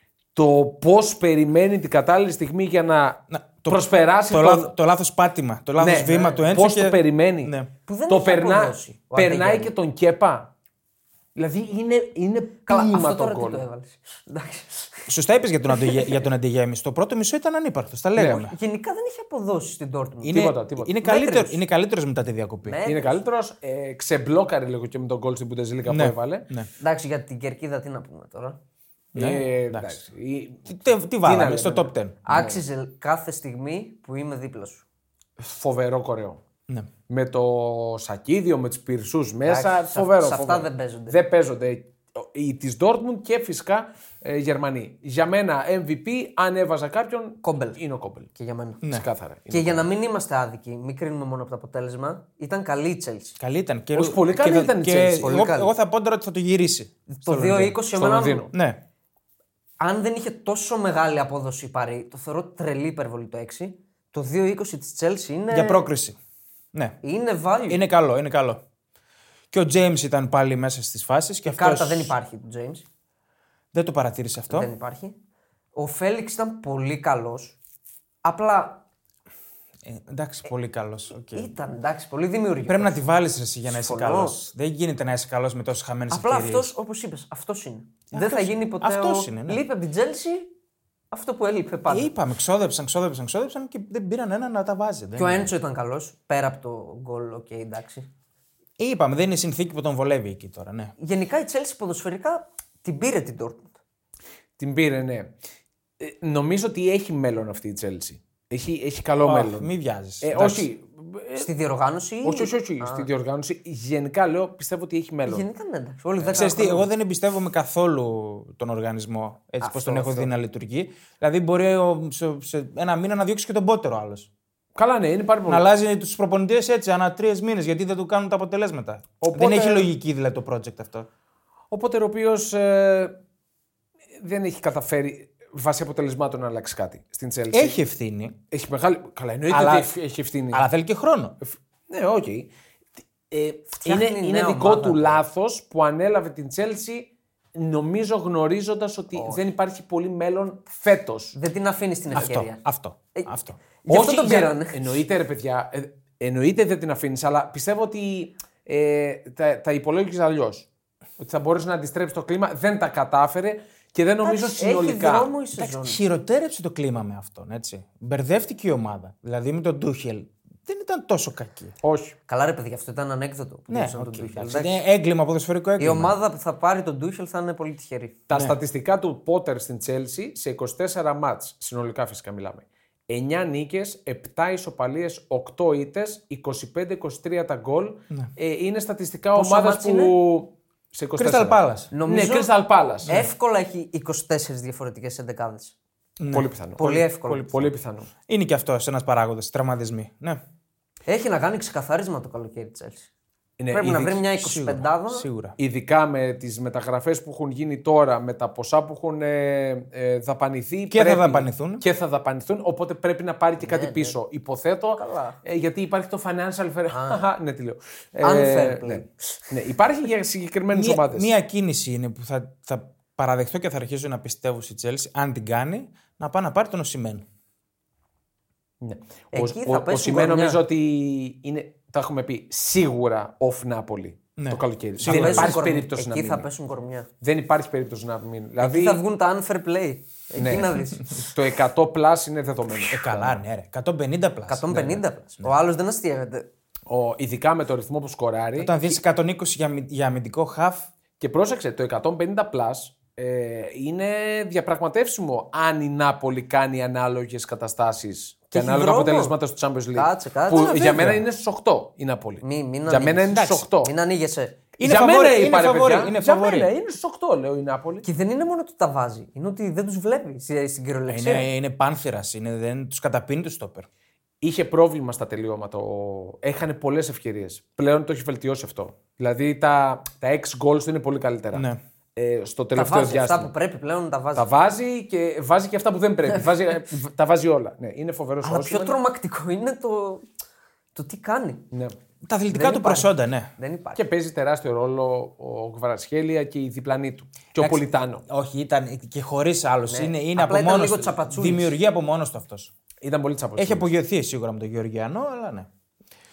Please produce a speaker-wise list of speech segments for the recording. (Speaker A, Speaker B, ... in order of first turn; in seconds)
Speaker A: 0.3-4.7, 5.8-7.5, 8.1-10.5, 11.4-13.6, 18.1-18.5, 20.3-20.9, 22.8-26.5, 29.1-32.6, 35.4-36.4, 37.1-48.3, 48.8-49.9, 53.9-55.5, 57.9-58.5, 104.6-105.3, 106.0-109.7, 110.2-111.5, 112.2-115.4, 116.2-116.5, 119.6-120.3, 124.8-125.7, 129.2-129.9, 131.7-133.2, 134.2-137.8, 138.5-140.7, 141.4-142.5, 143.3-151.4, 153.9-160.7, 161.2-165.3, 171.8-172.1, 178.3-193.2, 196.3-198.1, 203.6-204.2, 205.6-221.3, 228.8-236.5, 237.2-239.0, 240.4-243.4, 246.9-249.0, 251.2-263.9, 264.8-268.0, 274.4-281.6, 282.1-283.5, 284.3-289.0, 293.9-298.2, 303.0-303.9
Speaker B: 3.3-7.7, 15.1-18.5, 20.2-22.8, 25.9-26.7, 29.1-30.0, 30.7-32.2, 53.4-57.8, 58.5-58.8, 65.5-66.2, 67.7-68.6, 69.5-72.1, 73.7-74.7, 79.8-81.5, 82.7-86.7, 88.1-89.6, 91.9-95.5, 98.8-100.9, 109.2-110.7, 116.3-124.3, 125.5-131.1, 137.5-138.4, 139.5-139.9, 140.5-141.3, 152.1-153.6, 165.6-171.7, 173.7-176.2, 191.2-191.9, 196.2-197.7, 198.3-200.4, 204.4-205.6, 210.9-211.8, 220.7-227.2, 234.4-235.7, 242.8-245.5, 248.6-250.9, 260.5-261.2, 263.3-263.6, 264.8-266.7, 271.1-273.9, 281.5-281.8, 292.2-293.5, 297.6-302.7, 303.6-305.7
Speaker C: 7.9-9.7, 12.7-15.1, 15.7-16.2, 18.5-21.6, 22.6-23.2, 26.8-28.6, 32.2-34.8, 39.4-41.2, 47.4-47.8, 48.3-48.8, 49.5-53.4, 55.1-55.7, 57.1-58.5, 59.8-65.9, 67.0-67.8, 71.4-72.9, 74.5-75.2, 75.8-77.6, 78.2-78.8, 81.3-82.9, 83.7-84.4, 86.1-90.5, 91.1-92.1, 95.2-98.1, 101.0-103.7, 111.4-113.1, 115.2-116.9, 143.7-145.2, 149.1-149.4, 151.3-152.6, 153.8-154.9, 164.2-166.0, 172.3-174.8, 175.8-178.2, 189.3-190.1, 191.9-195.7, 196.8-197.5, 201.1-203.1, 203.7-205.2, 213.6-214.2, 214.9-215.4, 216.9-217.2, 218.2-219.5, 229.3-230.6, 235.1-237.1, 238.6-241.3, 244.5-246.5, 258.5-259.3, 259.9-260.8, 262.4-264.6, 268.0-271.5, 282.7-284.5, 288.4-290.3, 290.9-291.6, 292.5-294.0, 299.9-301.7